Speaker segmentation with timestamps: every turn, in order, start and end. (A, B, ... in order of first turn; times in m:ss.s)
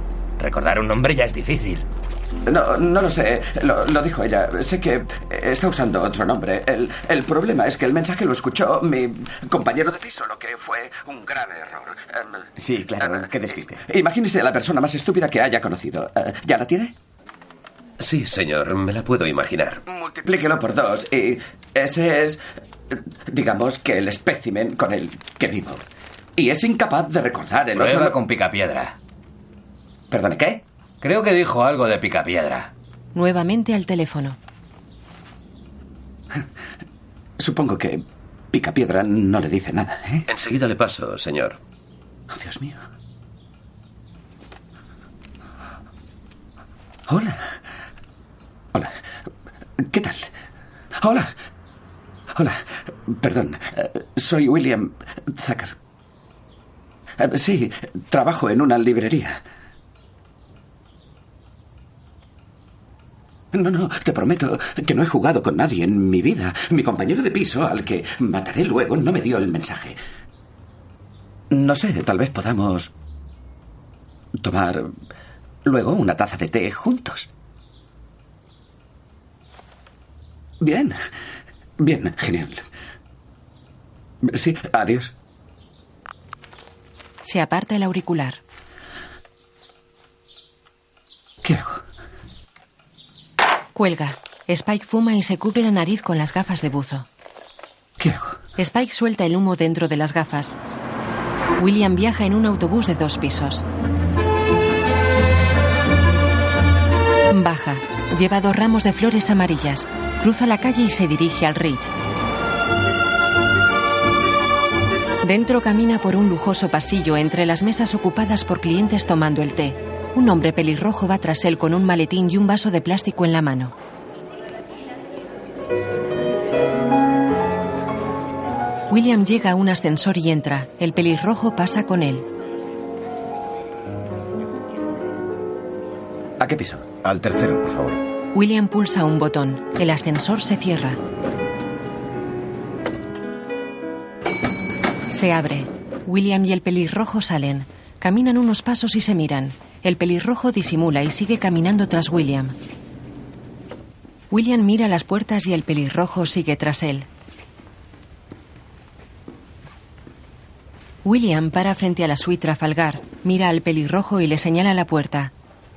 0:00.4-0:01.8 A
0:02.4-0:12.4 B
0:12.6-0:13.8 C
0:13.0-0:16.9 B
0:18.0-0:19.8 D
0:20.0-0:25.8 B
0:26.4-0:28.2 B
0:27.7-0:28.9 A
0:30.1-0:30.6 B
0:31.0-0:32.7 A
0:33.1-0:34.4 E
0:37.4-0:40.3 B
0:40.3-0:41.6 D
0:42.3-0:42.8 B
0:47.1-0:47.5 B
0:49.8-0:50.3 B
0:50.9-0:51.3 B
0:52.3-0:55.8 B
0:57.2-0:59.4 B
1:03.5-1:10.0 B
1:11.5-1:12.9 B
1:14.4-1:14.9 B
1:15.6-1:17.3 B
1:20.6-1:21.0 B
1:21.8-1:22.6 B
1:24.2-1:25.1 B
1:27.2-1:28.4 E
1:31.4-1:31.8 B
1:33.7-1:37.1 E
1:38.0-1:38.4 B
1:38.6-1:40.6 E
1:41.6-1:43.6 E
1:47.3-1:51.9 E
1:55.2-2:03.7 E
2:08.9-2:12.3 E
2:16.4-2:16.8 B
2:17.0-2:18.0 C
2:18.3-2:21.0 E
2:25.1-2:32.5 E
2:34.3-2:37.1 E
2:41.0-2:45.3 E